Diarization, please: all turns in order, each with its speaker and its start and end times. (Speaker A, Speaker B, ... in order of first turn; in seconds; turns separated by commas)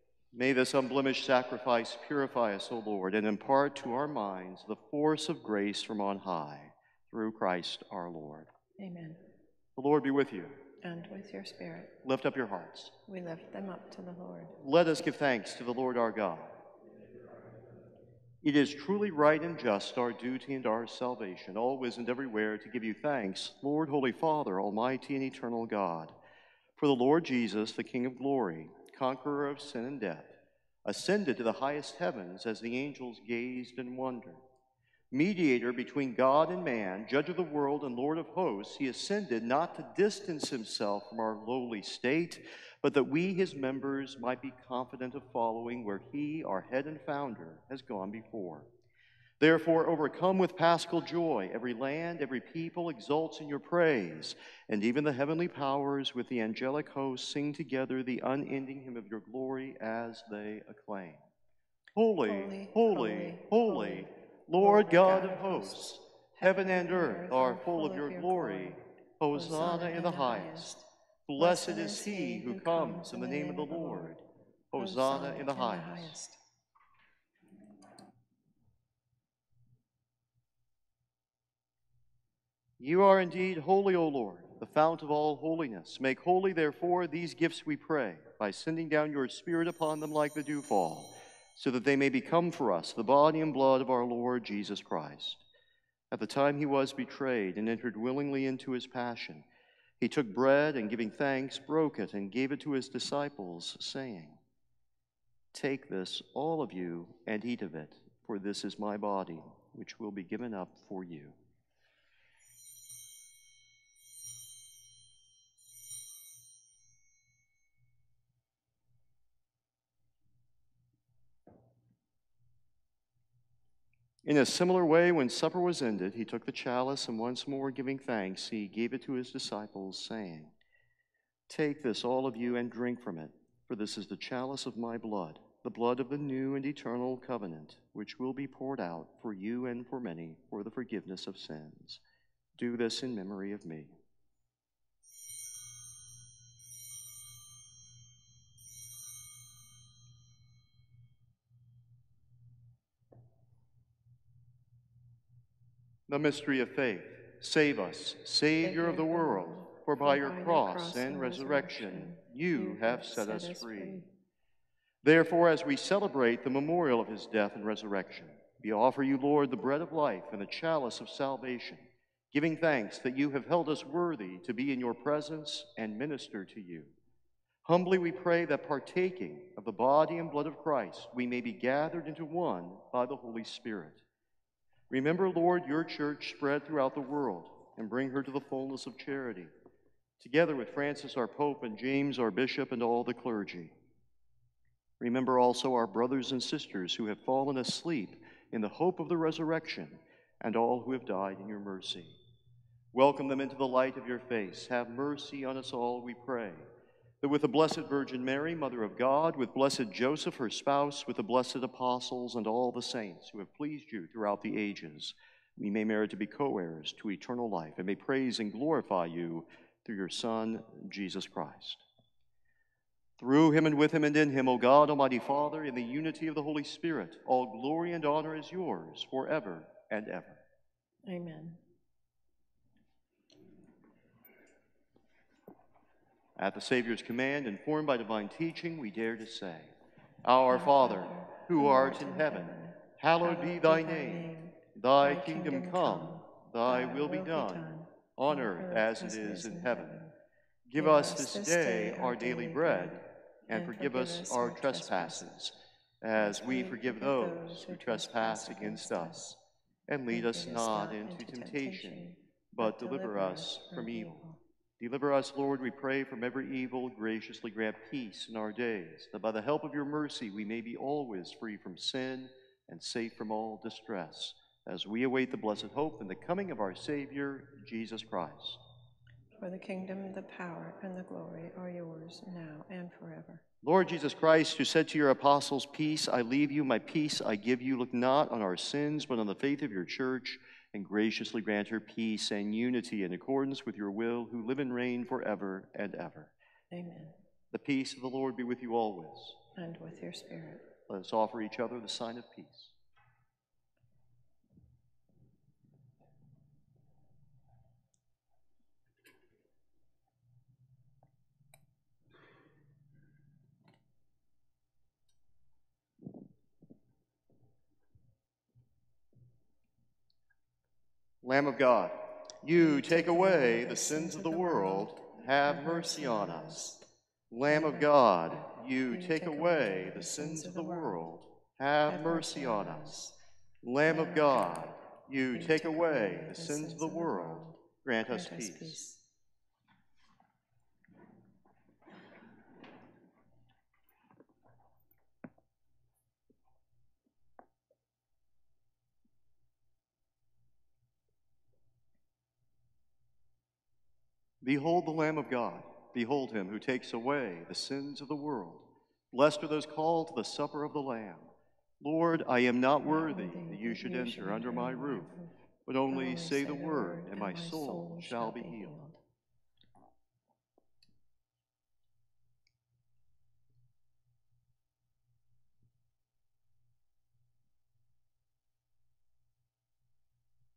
Speaker A: 0.3-8.5, Speaker B: 8.8-9.2, Speaker A: 9.8-10.6, Speaker B: 10.8-12.0, Speaker A: 12.0-13.0, Speaker B: 13.1-14.6, Speaker A: 14.6-16.5, Speaker A: 18.4-26.1, Speaker A: 26.8-34.4, Speaker A: 35.1-48.7, Speaker A: 49.4-61.2, Speaker A: 62.0-70.7, Speaker B: 62.2-68.8, Speaker B: 69.3-74.2, Speaker A: 71.3-74.2, Speaker A: 74.7-76.2, Speaker B: 74.8-76.4, Speaker A: 82.8-95.4, Speaker A: 96.1-99.5, Speaker A: 100.0-104.4, Speaker A: 105.5-111.4, Speaker A: 124.2-130.5, Speaker A: 131.5-142.0, Speaker A: 142.6-143.9, Speaker A: 156.1-164.0, Speaker B: 158.6-164.1, Speaker A: 165.0-176.9, Speaker A: 177.7-184.0, Speaker A: 184.9-189.5, Speaker A: 190.2-193.7, Speaker A: 195.0-202.2, Speaker A: 202.9-206.7, Speaker A: 207.2-221.8, Speaker A: 223.2-230.4, Speaker B: 231.1-231.6, Speaker A: 236.4-250.0, Speaker B: 240.5-250.2, Speaker A: 250.7-259.2, Speaker B: 250.8-255.3, Speaker B: 256.2-259.4, Speaker A: 259.9-264.2, Speaker B: 260.1-264.4, Speaker A: 264.8-278.6, Speaker B: 279.4-283.4, Speaker A: 283.6-296.3, Speaker B: 296.7-297.1, Speaker A: 297.5-299.4, Speaker B: 299.6-300.7, Speaker A: 300.9-302.8, Speaker A: 321.2-326.8, Speaker B: 322.5-326.9, Speaker A: 327.3-333.0, Speaker B: 327.5-331.1, Speaker B: 331.9-333.2, Speaker A: 333.6-338.8, Speaker B: 333.9-334.8, Speaker B: 335.3-339.0, Speaker A: 354.4-365.1, Speaker B: 362.9-365.4, Speaker A: 365.7-368.8, Speaker B: 365.9-369.0